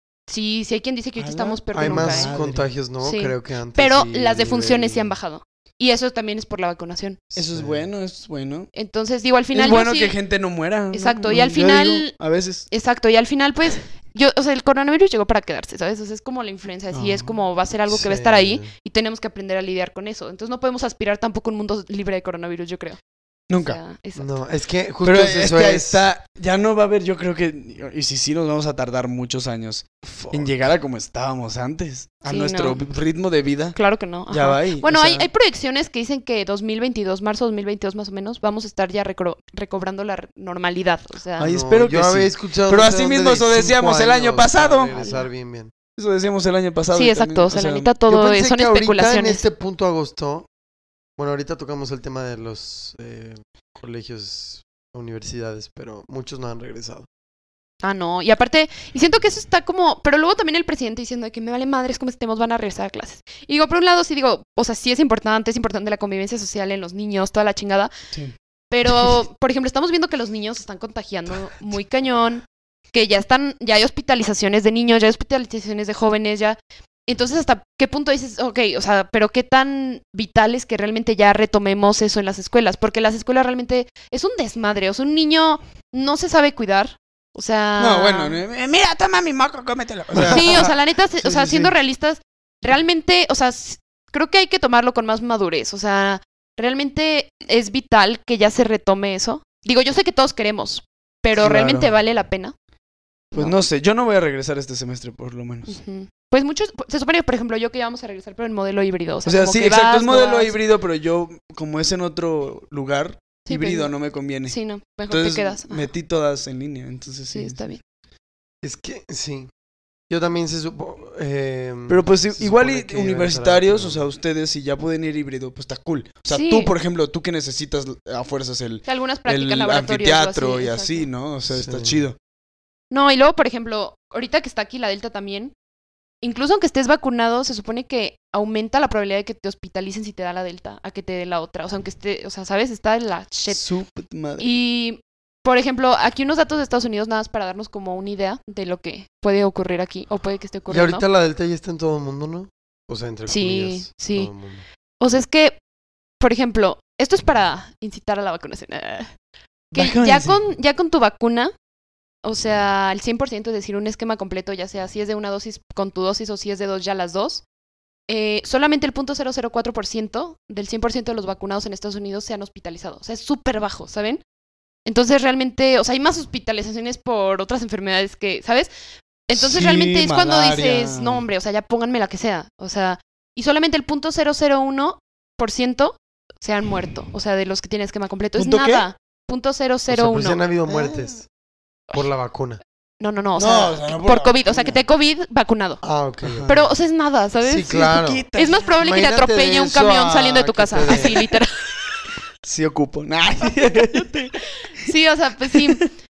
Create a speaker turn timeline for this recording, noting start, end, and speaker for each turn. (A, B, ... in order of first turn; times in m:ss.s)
0:00.3-0:02.3 A
0:01.2-0:02.7 B
0:01.7-0:05.1 C
0:03.0-0:07.2 A
0:07.3-0:07.8 C
0:07.3-0:08.7 B
0:08.7-0:10.2 A
0:09.5-0:12.7 B
0:10.9-0:12.1 A
0:12.7-0:23.0 A
0:16.9-0:17.3 B
0:17.9-0:18.7 C
0:23.5-0:23.8 B
0:23.6-0:24.3 A
0:24.2-0:26.0 C
0:25.0-0:33.7 B
0:30.2-0:30.5 C
0:32.3-0:32.8 A
0:33.7-0:41.5 A
0:34.3-0:35.3 B
0:41.4-0:44.9 B
0:41.4-0:45.7 C
0:44.9-0:45.3 A
0:46.0-0:47.9 B
0:46.9-0:49.4 A
0:48.1-0:50.5 C
0:51.2-0:57.1 C
0:57.8-1:07.9 A
1:08.7-1:28.4 A
1:27.8-1:30.7 B
1:30.2-1:42.5 A
1:31.2-1:31.7 B
1:41.4-1:41.9 B
1:43.3-1:45.8 B
1:45.7-1:50.6 A
1:49.2-1:54.6 B
1:53.4-1:53.9 A
1:54.4-1:55.9 A
1:55.1-1:57.6 B
1:57.3-1:57.8 A
1:58.6-1:59.5 C
2:00.1-2:04.0 C
2:01.9-2:12.2 B
2:06.3-2:06.7 A
2:08.8-2:11.1 A
2:11.5-2:12.0 C
2:12.9-2:15.5 A
2:16.2-2:23.6 A
2:23.5-2:24.5 B
2:24.4-2:31.0 A
2:30.7-2:34.6 C
2:33.3-2:34.3 A
2:35.0-2:35.6 A
2:36.2-2:39.1 A
2:39.7-2:41.5 A
2:39.7-2:40.4 B
2:42.2-2:47.4 A
2:48.1-2:54.2 A
2:54.8-2:58.7 A
2:59.3-3:10.4 A
2:59.3-3:01.2 B
3:08.4-3:08.8 B
3:09.9-3:11.3 C
3:10.7-3:11.1 B
3:11.9-3:12.6 C
3:13.0-3:15.8 A
3:13.4-3:14.8 B
3:15.8-3:16.6 C
3:16.2-3:16.6 B
3:16.4-3:21.5 A
3:17.4-3:18.2 C
3:17.8-3:18.8 B
3:18.8-3:21.2 C
3:22.4-3:24.9 B
3:23.9-3:25.9 A
3:25.5-3:25.9 B